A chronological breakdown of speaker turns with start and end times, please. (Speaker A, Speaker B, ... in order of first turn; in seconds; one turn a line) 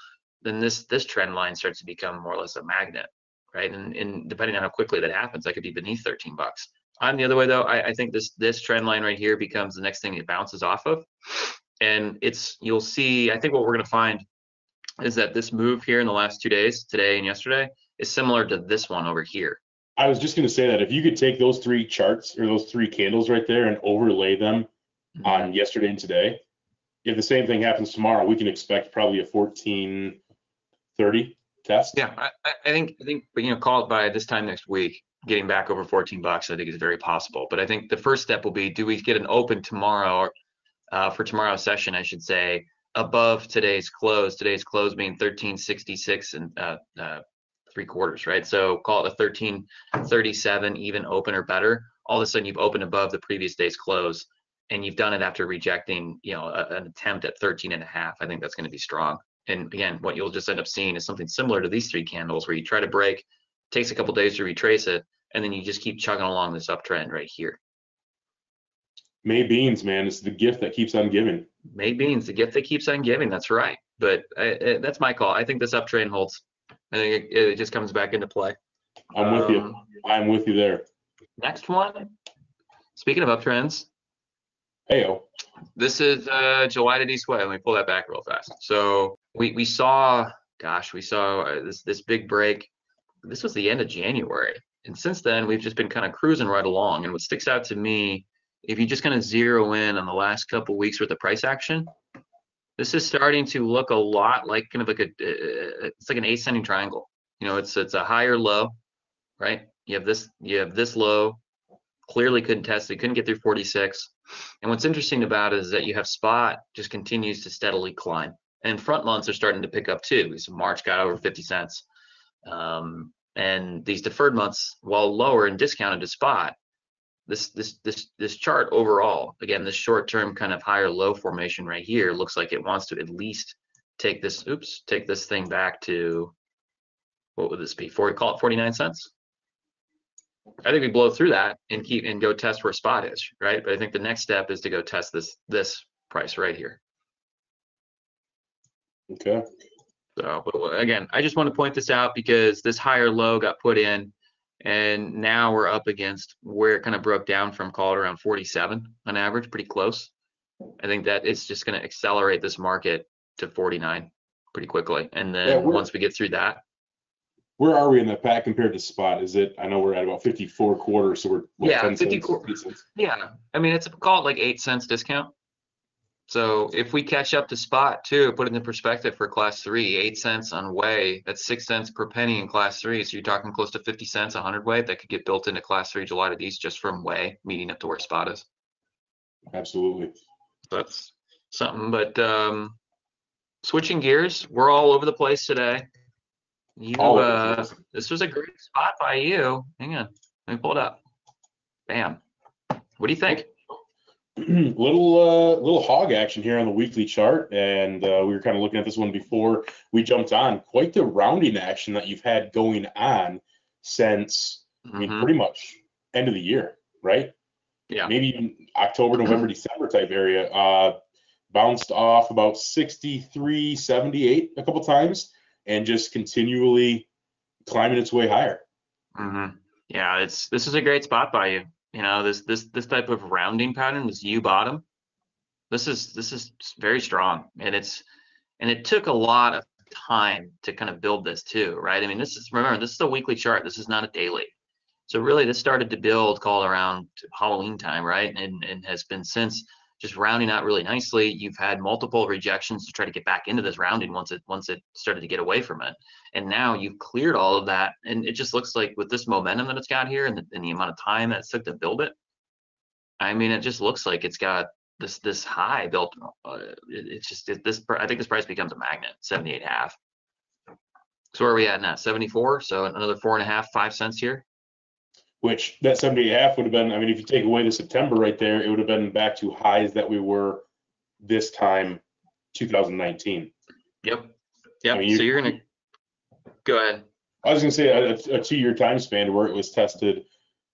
Speaker A: 0.4-14.2
Speaker A: 15.0-19.6
Speaker B: 20.0-24.7
Speaker A: 25.2-25.5
Speaker B: 25.2-26.4
Speaker B: 27.1-30.2
Speaker B: 31.0-32.0
Speaker A: 31.9-40.3
Speaker A: 40.9-67.6
Speaker B: 69.2-71.5
Speaker A: 71.7-78.6
Speaker A: 79.1-79.8
Speaker B: 79.1-80.8
Speaker A: 81.4-82.1
Speaker A: 83.0-83.9
Speaker B: 84.9-85.2
Speaker A: 85.8-92.7
Speaker A: 93.2-101.9
Speaker A: 102.8-108.7
Speaker A: 109.4-111.4
Speaker A: 112.1-121.8
Speaker A: 122.5-126.6
Speaker A: 127.3-136.3
Speaker A: 137.4-139.1
Speaker A: 140.6-146.8
Speaker B: 149.1-149.4
Speaker A: 150.2-160.1
Speaker A: 160.8-166.6
Speaker B: 165.4-165.9
Speaker B: 167.6-172.8
Speaker A: 171.6-175.3
Speaker A: 176.3-188.5
Speaker B: 189.5-190.1
Speaker A: 190.7-192.8
Speaker A: 193.6-195.9
Speaker A: 196.8-201.0
Speaker B: 197.0-197.8
Speaker A: 201.9-202.2
Speaker A: 203.0-203.5
Speaker B: 204.4-217.3
Speaker A: 214.8-215.3
Speaker A: 217.9-218.2
Speaker B: 218.1-220.9
Speaker B: 221.5-227.1
Speaker B: 227.7-228.6
Speaker A: 229.2-234.8
Speaker A: 235.7-238.1
Speaker A: 238.6-244.5
Speaker A: 245.1-262.1
Speaker A: 263.2-270.0
Speaker A: 271.3-274.4
Speaker B: 275.4-280.6
Speaker B: 281.2-282.0
Speaker B: 282.5-283.5
Speaker A: 284.0-285.6
Speaker B: 284.9-285.5
Speaker A: 286.6-287.0
Speaker B: 287.4-290.2